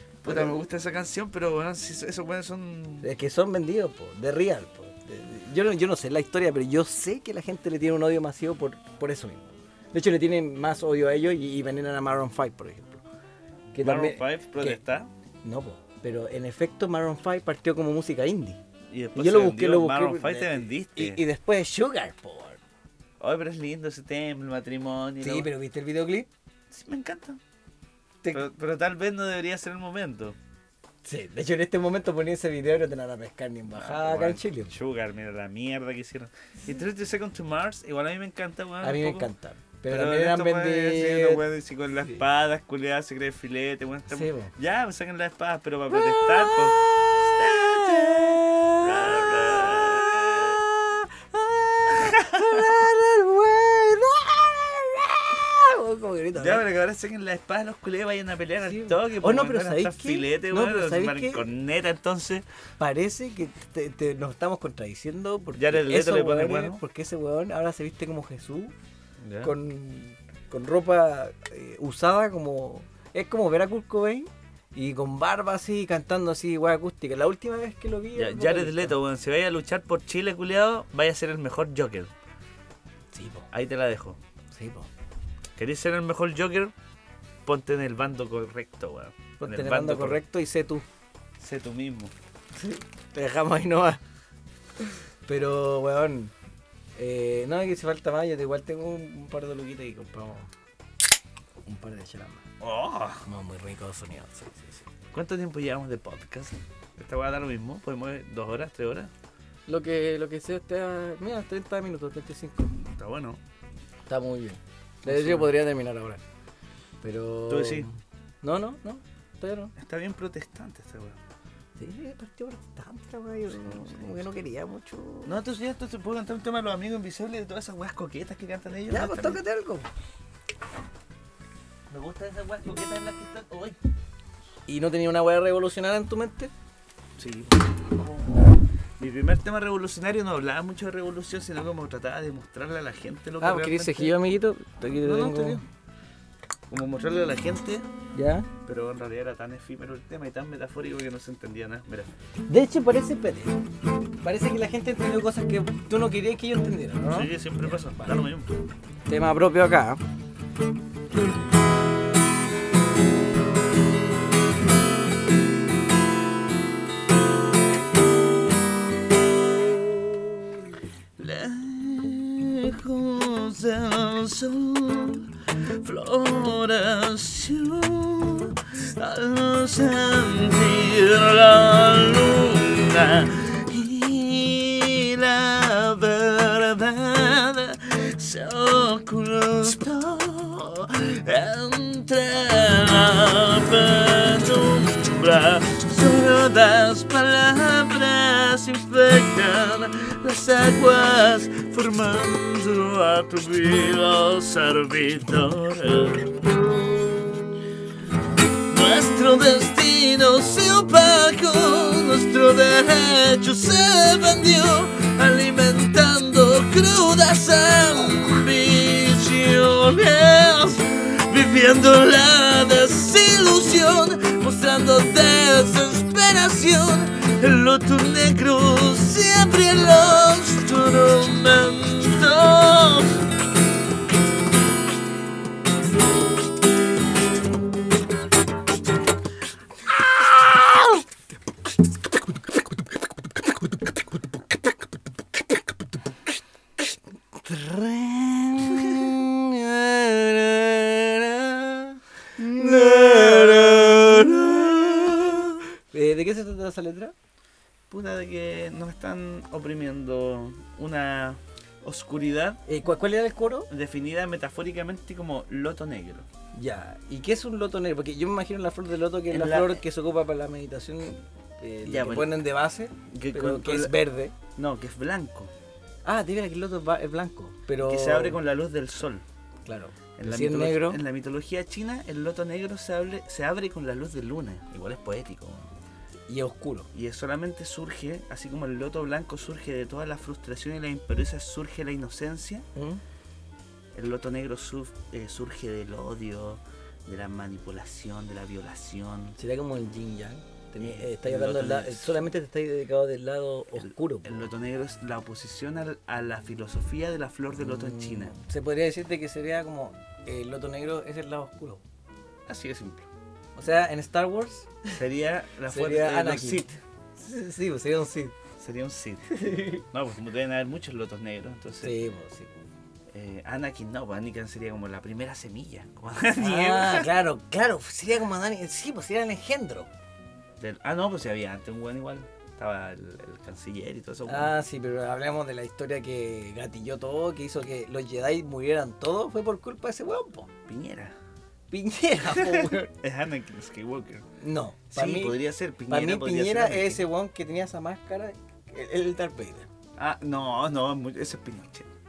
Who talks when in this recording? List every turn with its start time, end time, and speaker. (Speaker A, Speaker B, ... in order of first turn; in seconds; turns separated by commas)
Speaker A: 0.2-3.1, Speaker B: 0.2-0.6, Speaker B: 3.0-13.0, Speaker B: 13.7-14.8, Speaker A: 13.8-15.1, Speaker B: 15.4-18.6, Speaker A: 18.9-21.2, Speaker B: 19.1-22.6, Speaker A: 23.2-25.5, Speaker B: 25.2-26.3, Speaker A: 26.7-27.4, Speaker A: 28.3-30.4, Speaker B: 31.0-34.7, Speaker A: 33.7-39.3, Speaker B: 38.8-41.4, Speaker A: 39.9-50.6, Speaker B: 44.1-44.5, Speaker B: 45.9-56.6, Speaker A: 51.9-52.7, Speaker A: 56.4-62.5, Speaker B: 58.6-61.4, Speaker B: 62.8-68.8, Speaker A: 65.6-66.8, Speaker A: 69.2-69.5, Speaker B: 69.4-79.0, Speaker A: 78.2-82.1, Speaker B: 83.1-83.5, Speaker A: 83.5-84.2, Speaker B: 84.5-84.9, Speaker A: 85.6-86.7, Speaker A: 87.5-90.2, Speaker B: 89.4-90.8, Speaker A: 91.4-92.1, Speaker B: 92.5-94.0, Speaker B: 95.2-96.3, Speaker B: 97.0-100.5, Speaker B: 101.7-102.5, Speaker A: 102.6-103.2, Speaker B: 103.2-104.9, Speaker A: 105.1-109.1, Speaker B: 109.7-112.8, Speaker A: 112.9-113.4, Speaker B: 114.1-116.2, Speaker A: 115.0-115.5, Speaker B: 117.0-119.7, Speaker A: 117.5-117.9, Speaker A: 119.8-121.2, Speaker B: 121.8-125.3, Speaker A: 123.5-124.2, Speaker A: 125.3-129.4, Speaker B: 128.9-129.9, Speaker A: 131.9-133.8, Speaker B: 134.7-136.5, Speaker A: 137.2-138.4, Speaker A: 139.0-144.2, Speaker B: 143.4-145.6, Speaker A: 145.0-145.7, Speaker A: 146.7-147.9, Speaker B: 148.2-148.5, Speaker A: 148.7-152.1, Speaker B: 152.5-153.6, Speaker B: 154.2-158.3, Speaker A: 157.1-158.5, Speaker B: 159.1-160.0, Speaker A: 171.2-175.3, Speaker A: 175.8-206.4, Speaker A: 208.7-233.2, Speaker B: 240.2-241.0, Speaker B: 247.3-257.1, Speaker A: 252.4-255.6, Speaker A: 257.9-262.6, Speaker B: 262.7-263.7, Speaker A: 263.7-266.3, Speaker B: 266.5-274.3, Speaker A: 269.3-269.8, Speaker A: 271.9-272.4, Speaker A: 273.1-273.9, Speaker A: 274.6-275.5, Speaker B: 276.1-278.4, Speaker A: 277.8-279.2, Speaker B: 279.6-281.0, Speaker A: 280.2-285.7, Speaker B: 286.3-286.9, Speaker A: 286.9-292.7, Speaker B: 292.8-293.0, Speaker A: 293.9-299.4, Speaker B: 299.4-304.5, Speaker A: 300.8-302.3, Speaker A: 303.8-308.4, Speaker B: 307.6-311.8, Speaker A: 312.5-313.1, Speaker B: 313.6-314.9, Speaker A: 314.9-316.7, Speaker B: 315.7-318.4, Speaker A: 318.6-322.0, Speaker B: 319.3-319.8, Speaker B: 321.8-322.6, Speaker A: 323.1-327.1, Speaker B: 326.4-329.9, Speaker A: 330.6-334.5, Speaker B: 334.3-340.5, Speaker A: 340.7-341.1, Speaker B: 341.7-342.9, Speaker A: 342.3-344.2, Speaker B: 344.4-345.4, Speaker A: 344.9-347.1, Speaker B: 345.9-349.7, Speaker A: 350.0-351.9